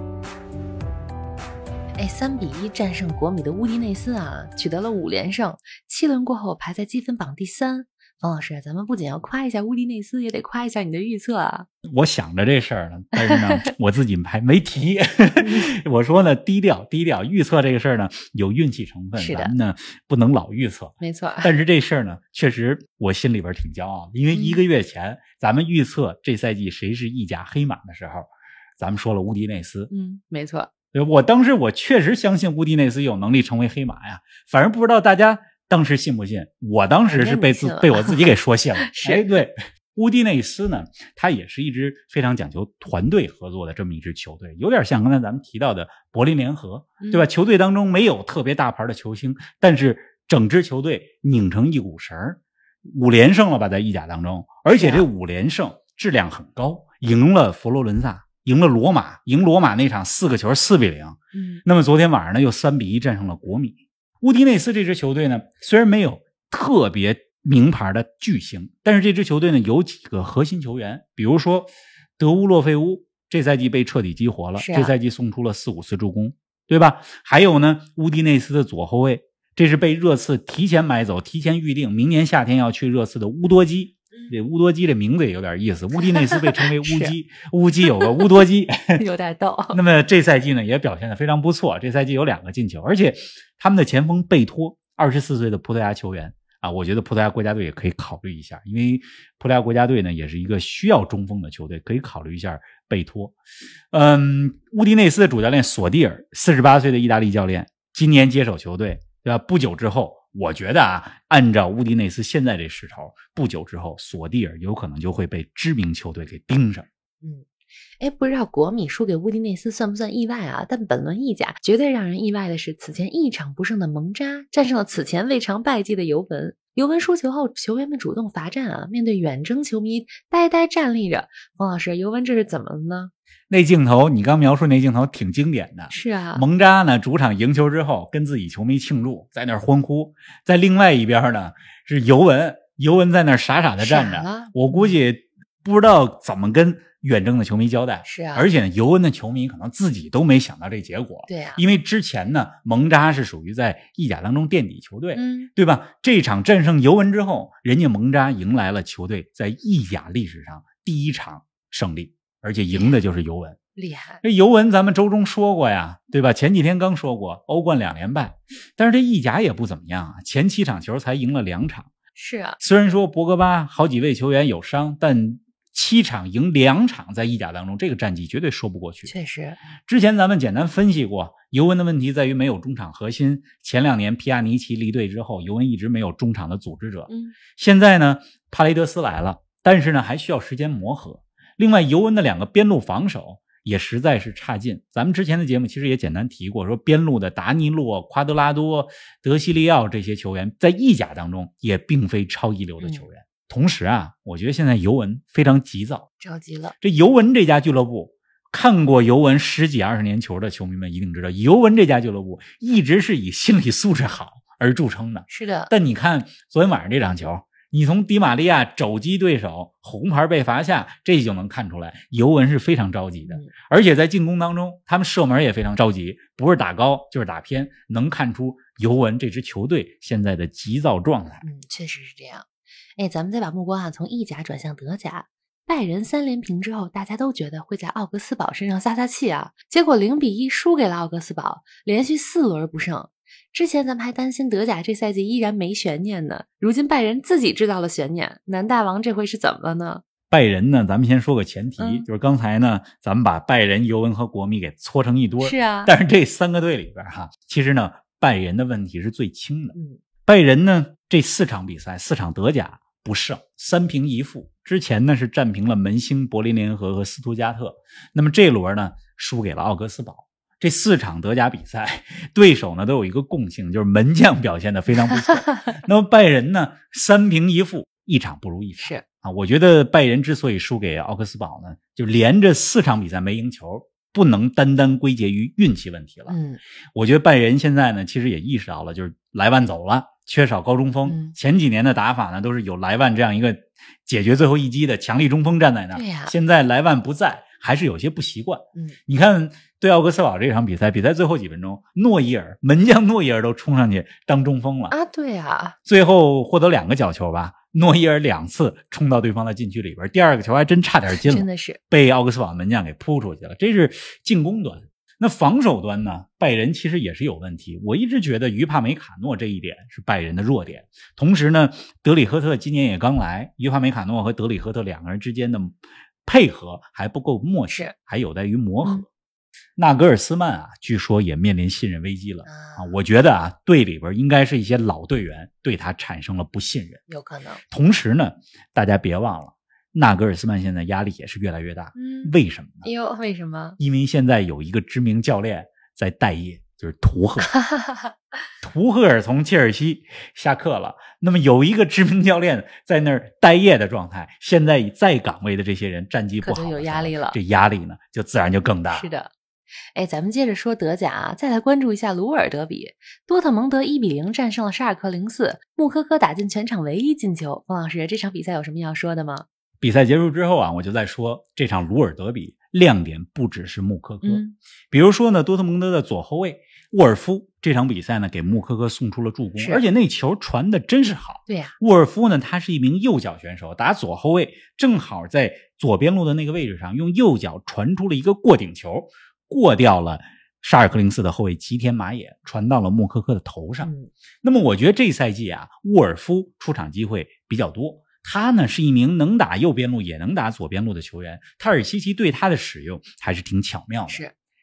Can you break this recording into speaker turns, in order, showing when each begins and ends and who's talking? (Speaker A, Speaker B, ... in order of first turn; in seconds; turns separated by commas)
Speaker A: 2.0-11.7, Speaker B: 11.8-29.9, Speaker A: 13.2-13.6, Speaker A: 15.4-15.7, Speaker A: 19.1-19.5, Speaker A: 21.0-21.5, Speaker A: 24.3-24.6, Speaker A: 29.9-30.7, Speaker B: 30.9-89.0, Speaker A: 37.1-39.2, Speaker A: 47.0-47.3, Speaker A: 54.7-55.0, Speaker A: 61.3-61.6, Speaker A: 74.5-74.9, Speaker A: 86.0-87.1, Speaker A: 87.8-88.2, Speaker A: 89.0-89.8, Speaker B: 89.7-103.3, Speaker B: 103.9-116.9, Speaker A: 117.2-133.1, Speaker B: 133.5-163.6, Speaker A: 135.9-136.4, Speaker A: 143.8-145.0, Speaker A: 148.0-148.5, Speaker A: 151.3-151.6, Speaker A: 155.1-155.5, Speaker A: 162.7-163.0, Speaker A: 163.8-164.2, Speaker B: 164.2-171.9, Speaker A: 172.1-172.6, Speaker B: 172.6-179.1, Speaker A: 179.1-179.6, Speaker B: 179.8-206.1, Speaker A: 187.1-187.3, Speaker A: 202.8-203.1, Speaker A: 206.2-206.8, Speaker B: 206.8-231.4, Speaker A: 215.3-215.7, Speaker A: 223.3-223.5, Speaker A: 231.4-250.0, Speaker B: 250.3-259.7, Speaker A: 251.8-252.1, Speaker A: 255.4-255.9, Speaker A: 259.7-260.0, Speaker B: 260.2-286.4, Speaker A: 275.1-275.7, Speaker A: 286.3-286.6, Speaker B: 286.9-304.9, Speaker A: 291.0-291.4, Speaker A: 295.9-296.3, Speaker A: 304.9-305.8, Speaker B: 305.9-329.1, Speaker A: 311.1-311.8, Speaker A: 327.7-327.9, Speaker B: 329.8-337.1, Speaker A: 332.4-333.0, Speaker A: 337.1-337.6, Speaker B: 337.7-342.9, Speaker A: 341.9-343.8, Speaker B: 343.8-347.6, Speaker A: 347.6-348.1, Speaker B: 348.6-359.1, Speaker A: 356.4-357.4, Speaker A: 358.9-359.3, Speaker A: 359.9-369.4, Speaker B: 369.8-393.9, Speaker A: 374.2-374.6, Speaker A: 379.6-379.8, Speaker A: 381.5-381.8, Speaker A: 393.8-394.1, Speaker B: 394.4-404.2